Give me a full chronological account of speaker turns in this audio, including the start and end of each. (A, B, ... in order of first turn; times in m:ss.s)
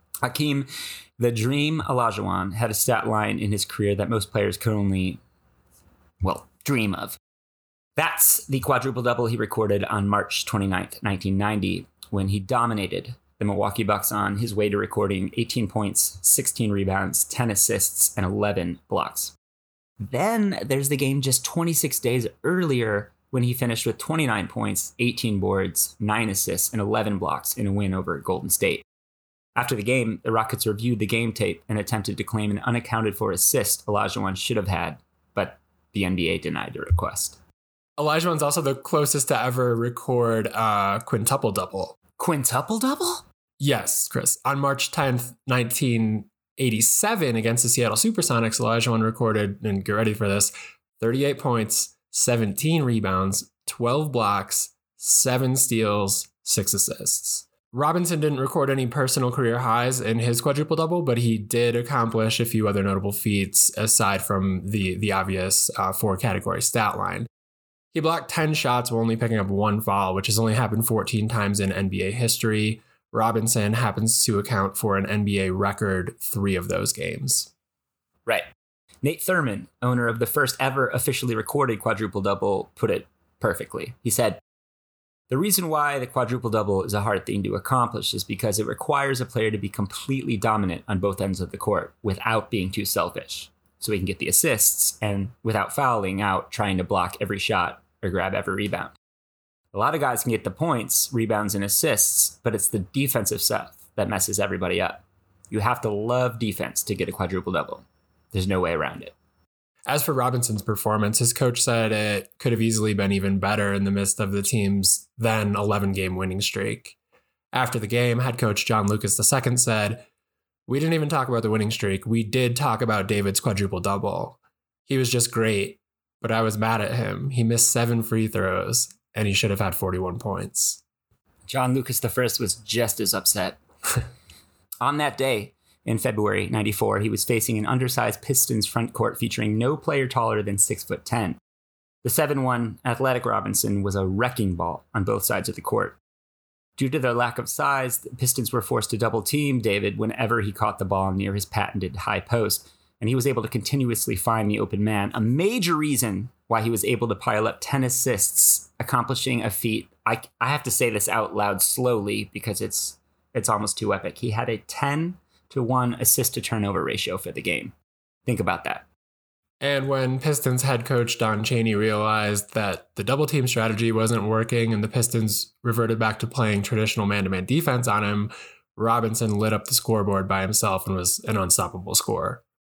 0:00.2-0:05.2 A
0:06.2-0:07.2 A
0:08.0-0:19.3 A
0:20.0-0:28.8 A
0:29.6-0:37.4 A
0:38.0-0:42.0 B
0:42.2-0:43.2 A
0:43.6-1:07.3 B
1:07.9-1:17.5 B
1:19.0-1:24.4 A
1:25.3-1:38.9 A
1:39.7-1:49.1 A
1:49.9-1:57.0 B
1:57.5-2:00.0 B
2:00.7-2:10.8 B
2:11.5-2:13.6 A
2:14.8-2:21.4 A
2:22.0-2:26.0 A
2:26.8-2:47.7 A
2:48.2-2:48.9 A
2:49.6-3:02.4 B